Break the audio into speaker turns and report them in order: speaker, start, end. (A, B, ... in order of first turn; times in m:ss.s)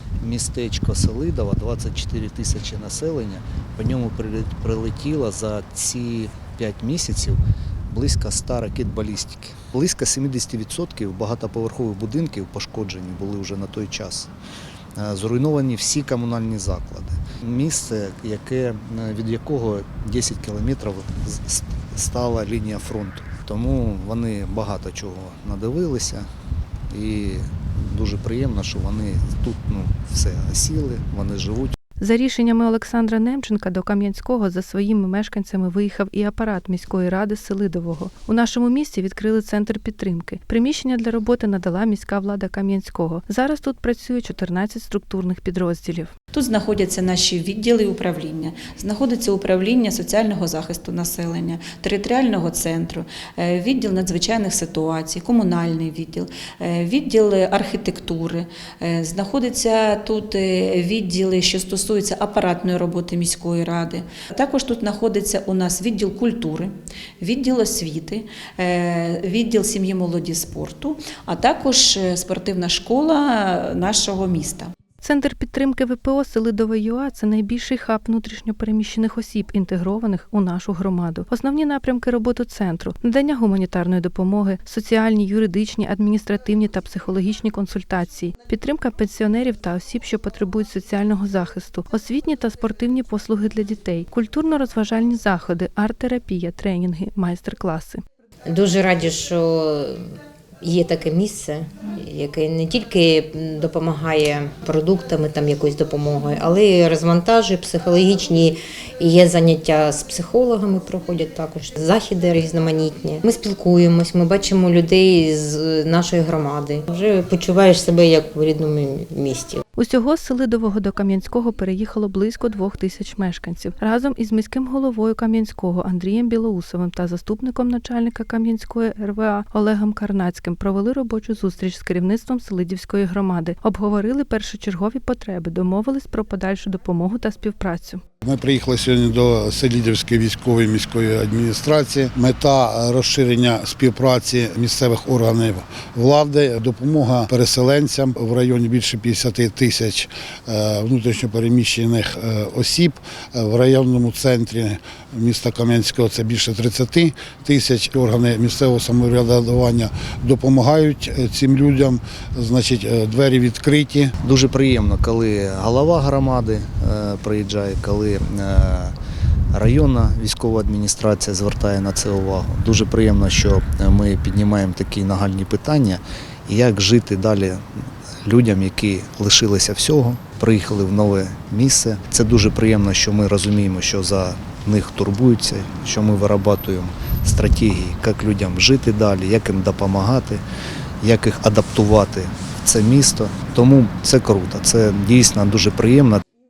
0:00.2-0:14.3 A
0:15.0-0:26.3 A
0:26.9-0:31.8 A
0:32.0-0:46.1 B
0:46.3-1:14.7 C
1:15.0-1:38.0 B
1:38.5-1:40.1 D
1:40.6-1:59.6 D
1:59.8-2:18.0 B
2:18.2-2:44.1 E
2:44.2-2:49.0 A
2:49.5-2:57.6 A
2:58.2-3:10.4 A
3:11.0-3:16.2 A